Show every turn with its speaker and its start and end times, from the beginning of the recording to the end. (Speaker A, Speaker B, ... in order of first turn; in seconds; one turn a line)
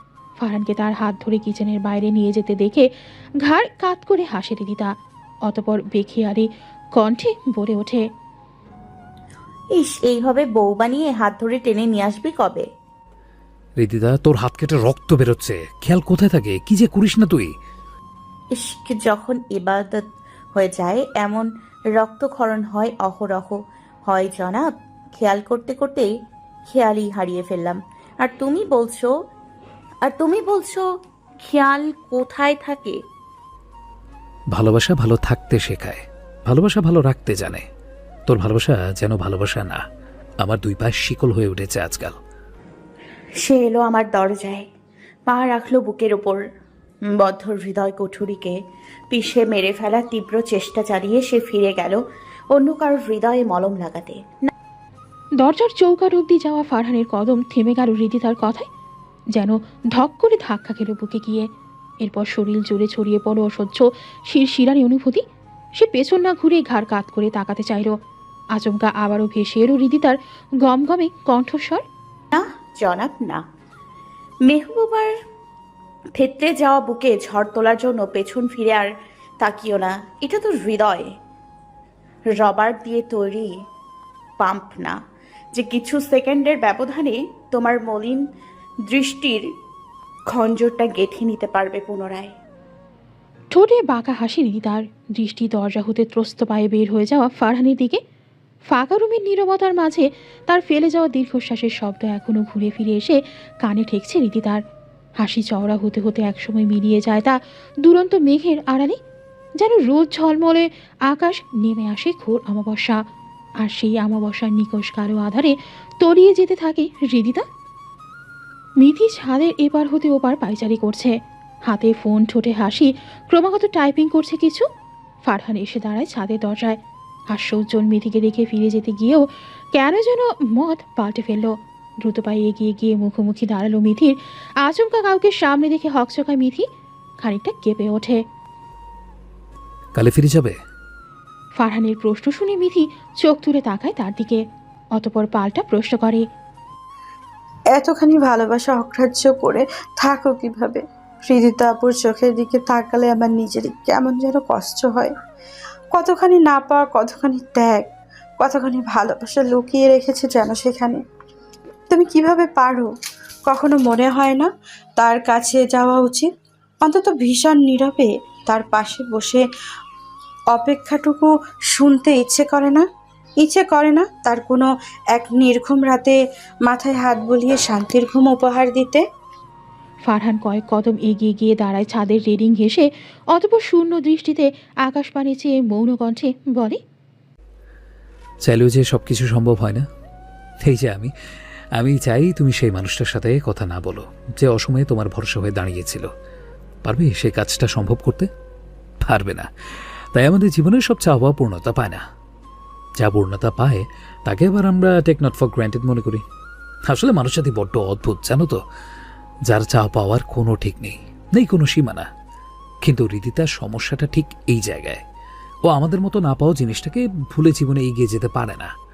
Speaker A: 0.4-2.9
Speaker A: 3.4-4.9
Speaker A: 5.5-8.0
Speaker B: 9.7-12.7
Speaker C: 13.8-17.5
Speaker B: 18.5-26.1
Speaker B: 26.7-29.1
Speaker B: 30.0-30.9
Speaker B: 31.4-33.0
Speaker C: 34.5-37.6
Speaker C: 38.3-39.8
Speaker C: 40.4-42.1
Speaker B: 43.4-44.7
Speaker B: 45.3-46.4
Speaker B: 47.1-48.5
Speaker B: 49.1-52.0
Speaker B: 52.5-54.5
Speaker A: 55.4-58.7
Speaker A: 59.3-61.5
Speaker A: 62.0-65.2
Speaker A: 65.8-68.0
Speaker A: 68.5-71.8
Speaker B: 72.3-73.4
Speaker B: 74.5-75.1
Speaker B: 76.2-78.9
Speaker B: 79.4-81.1
Speaker B: 82.3-83.6
Speaker B: 84.4-85.0
Speaker B: 85.5-88.2
Speaker B: 88.8-89.5
Speaker B: 90.3-92.3
Speaker A: 93.5-98.0
Speaker A: 98.7-104.6
Speaker A: 105.2-109.0
Speaker A: 109.6-113.0
Speaker A: 113.6-117.4
Speaker A: 118.8-121.1
Speaker A: 121.7-124.7
Speaker A: 125.2-126.8
Speaker A: 127.3-136.7
Speaker A: 137.2-138.2
Speaker C: 139.9-140.6
Speaker A: 141.6-144.4
Speaker A: 144.9-146.2
Speaker D: 147.7-155.1
Speaker D: 155.9-157.8
Speaker D: 158.4-161.0
Speaker D: 161.9-162.9
Speaker D: 163.4-166.3
Speaker D: 166.8-169.4
Speaker D: 170.5-172.8
Speaker D: 173.4-179.0
Speaker A: 180.0-186.8
Speaker C: 188.4-189.8
Speaker C: 190.6-191.1
Speaker C: 191.8-196.1
Speaker C: 196.8-198.3
Speaker C: 199.0-199.5
Speaker C: 200.1-202.0
Speaker C: 203.0-206.2
Speaker C: 206.9-208.6
Speaker C: 209.5-212.1
Speaker C: 212.8-215.0
Speaker C: 215.7-218.7